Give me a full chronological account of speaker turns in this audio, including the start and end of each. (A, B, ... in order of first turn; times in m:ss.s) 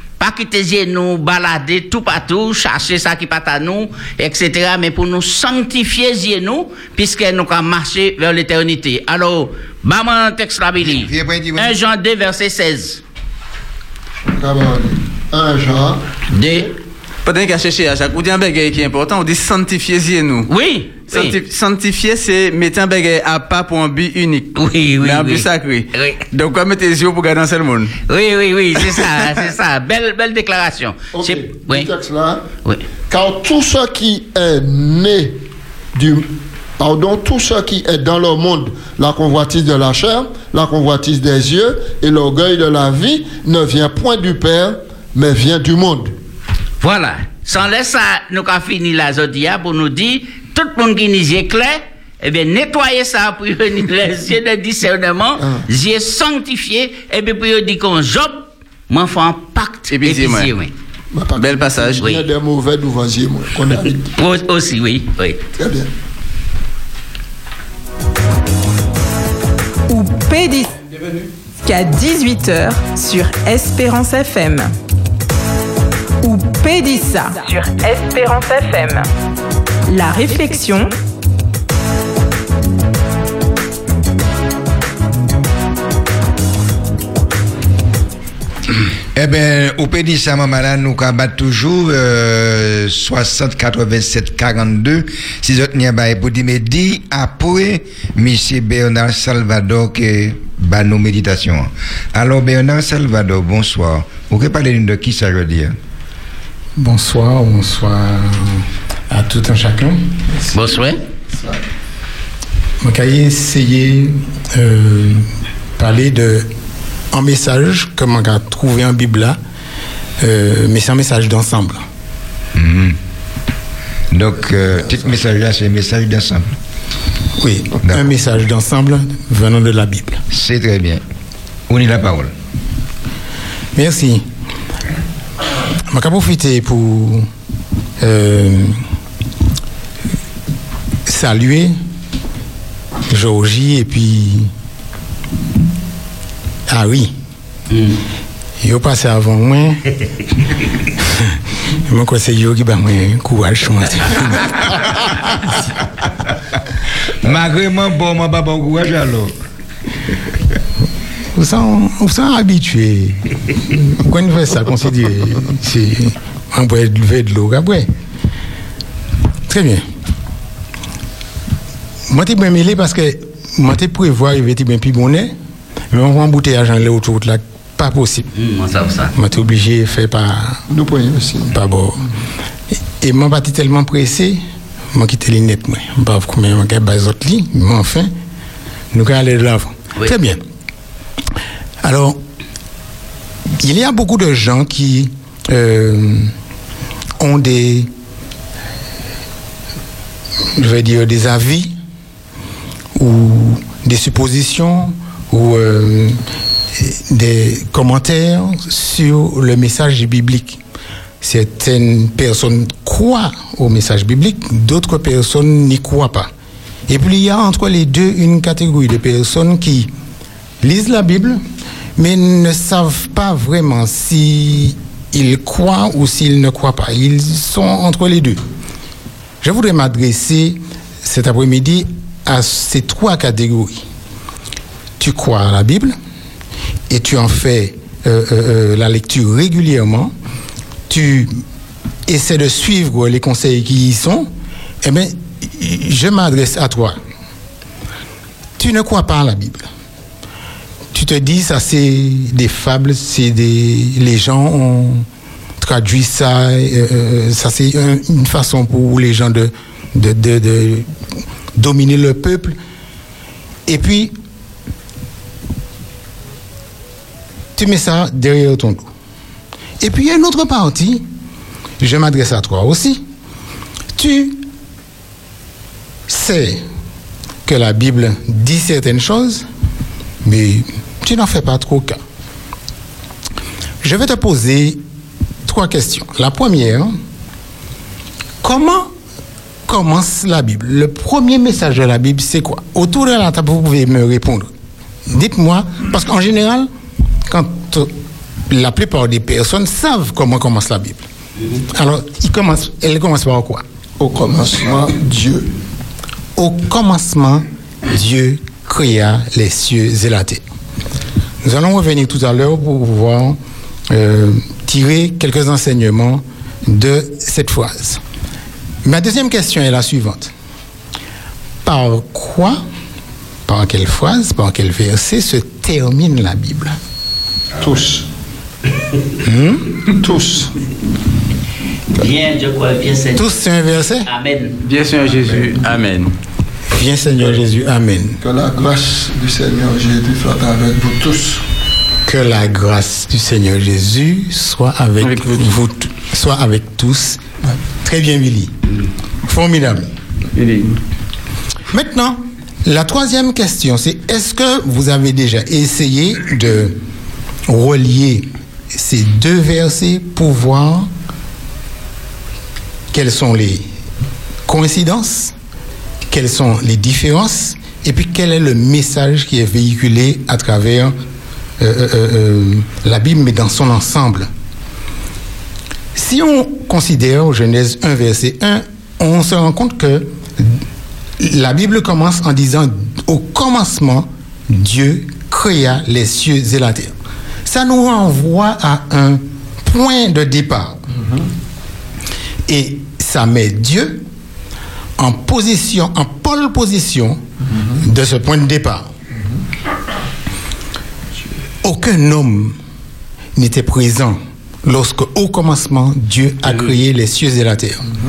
0:00.2-0:13.0 A
0:10.8-0:11.7 B
0:14.2-0:16.2 C
0:16.3-0:16.7 A
0:17.2-0:20.5 D
0:20.5-0:21.4 A
0:21.1-0:27.9 D
0:24.5-0:26.2 A
0:28.1-0:31.9 A
0:31.1-0:32.4 C
0:33.1-0:35.4 C
0:35.9-0:46.1 C
0:46.8-1:00.7 A
0:55.4-0:55.6 C
0:59.9-1:00.5 D
1:01.1-1:04.1 C
1:01.4-1:02.0 D
1:04.1-1:05.4 A
1:05.6-1:05.9 C
1:09.9-1:10.7 E
1:11.6-1:14.7 E
1:16.2-1:19.0 E
1:19.9-1:20.9 E
1:29.1-1:45.8 B
1:46.8-1:50.0 F
1:50.5-1:51.0 A
1:52.8-1:56.4 F
1:57.1-1:59.4 F
2:00.2-2:01.8 F
2:02.5-2:03.0 B
2:04.1-2:06.5 B
2:07.4-2:10.2 F
2:10.3-2:11.0 B
2:11.7-2:12.3 B
2:13.7-2:14.2 F
2:15.9-2:17.3 F
2:18.0-2:18.8 F
2:21.1-2:21.7 F
2:23.1-2:24.5 F
2:26.7-2:27.1 F
2:27.7-2:28.0 A
2:28.6-2:29.8 F
2:31.9-2:35.3 F
2:37.2-2:39.3 B
2:41.4-2:47.9 F
2:49.5-2:49.8 F
2:52.1-2:55.3 F
2:55.9-2:58.3 F
2:58.3-2:59.1 A
2:59.1-3:00.6 F
3:00.7-3:01.5 C
3:01.5-3:02.0 F
3:03.0-3:04.4 F
3:04.9-3:08.1 F
3:08.9-3:10.4 F
3:11.8-3:12.2 F
3:13.6-3:16.3 F
3:17.2-3:17.9 F
3:20.6-3:21.7 F
3:22.9-3:26.2 F
3:26.8-3:30.6 F
3:31.2-3:36.3 F
3:36.9-3:39.9 F
3:40.6-3:41.4 F
3:42.0-3:48.4 F
3:49.4-3:53.8 F
3:55.0-3:55.9 F
3:56.9-4:00.1 F
4:00.9-4:01.3 F
4:02.1-4:04.3 F
4:04.8-4:07.0 F
4:08.6-4:09.7 F
4:10.9-4:15.0 F
4:15.6-4:20.9 F
4:21.6-4:22.6 F
4:23.7-4:24.1 F
4:27.6-4:28.9 F
4:29.8-4:31.0 F
4:31.8-4:33.0 F
4:34.0-4:34.4 F
4:36.1-4:36.6 F
4:37.4-4:39.4 F
4:40.2-4:42.0 F
4:43.8-4:44.8 F
4:45.4-4:46.9 F
4:48.4-4:48.9 F
4:49.7-4:54.5 F
4:55.1-4:56.7 F
4:57.2-4:57.9 F
4:58.5-5:01.0 F
5:01.7-5:03.6 F
5:04.0-5:05.4 C
5:06.4-5:10.4 F
5:11.4-5:13.4 F
5:13.9-5:18.0 F
5:18.8-5:20.3 F
5:21.6-5:22.6 F
5:23.4-5:26.8 F
5:27.6-5:28.0 C
5:29.2-5:29.7 F
5:30.0-5:30.5 C
5:32.0-5:33.4 A
5:33.1-5:34.1 F
5:34.1-5:34.6 A
5:34.6-5:36.1 D
5:36.7-5:38.2 F
5:38.2-5:41.4 C
5:42.0-5:47.2 F
5:45.0-5:45.5 D
5:47.8-5:48.5 F
5:49.2-5:49.9 F
5:50.4-5:50.8 D
5:51.7-5:56.7 F
5:57.5-6:00.9 F
6:02.9-6:03.6 F
6:04.5-6:05.3 F
6:06.1-6:10.9 F
6:11.6-6:14.3 F
6:15.9-6:20.5 F
6:21.2-6:26.9 F
6:27.4-6:30.8 F
6:31.0-6:31.2 C
6:32.5-6:34.0 F
6:35.0-6:37.2 F
6:37.8-6:38.9 F
6:41.6-6:42.6 F
6:43.4-6:47.8 F